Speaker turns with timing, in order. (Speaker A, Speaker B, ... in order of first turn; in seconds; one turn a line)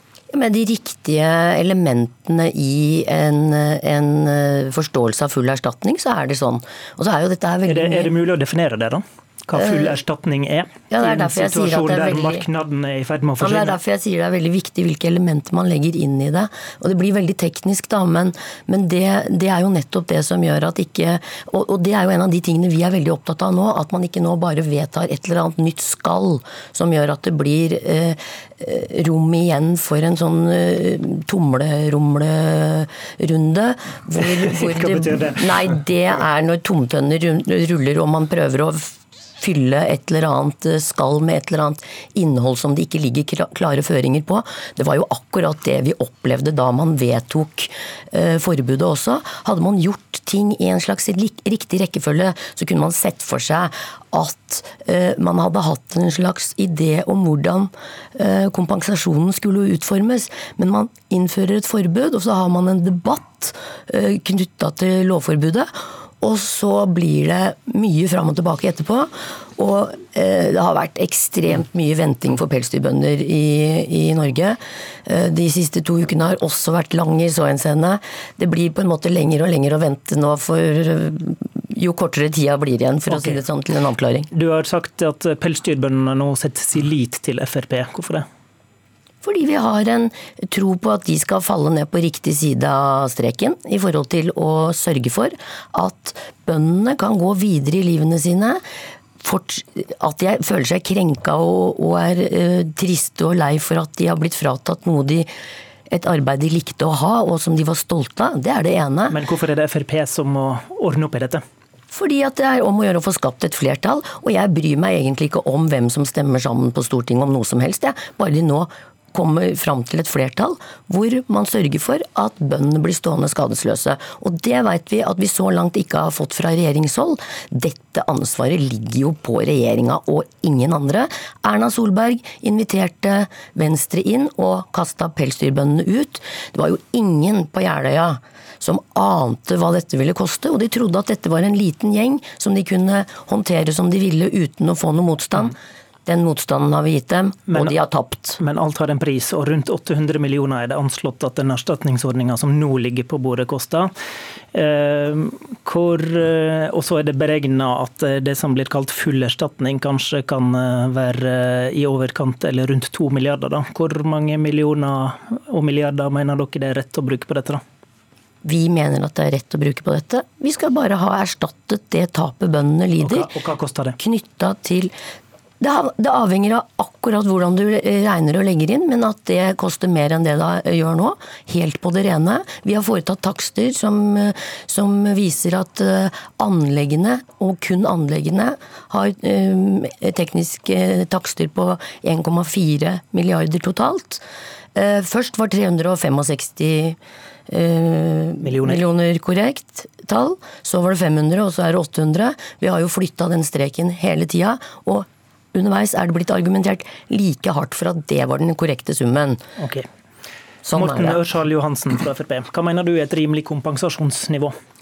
Speaker A: 0.3-8.1
Speaker B: 7.6-13.8
Speaker A: 9.5-10.0
Speaker A: 10.9-12.4
Speaker A: 13.4-65.7
Speaker B: 34.4-35.7
Speaker A: 66.2-84.3
Speaker B: 83.1-83.4
Speaker B: 84.3-88.2
Speaker A: 89.2-98.6
Speaker A: 99.2-105.3
Speaker A: 105.9-109.2
Speaker B: 109.1-111.4
Speaker A: 111.9-148.4
Speaker B: 147.5-147.7
Speaker B: 148.4-153.9
Speaker B: 154.5-167.6
Speaker A: 168.4-173.3
Speaker B: 173.0-173.9
Speaker A: 174.0-174.9
Speaker A: 175.6-194.2
Speaker A: 194.7-197.0
Speaker A: 197.5-209.4
Speaker B: 198.4-198.8
Speaker B: 209.6-209.9
Speaker A: 210.6-211.2
Speaker B: 210.7-214.5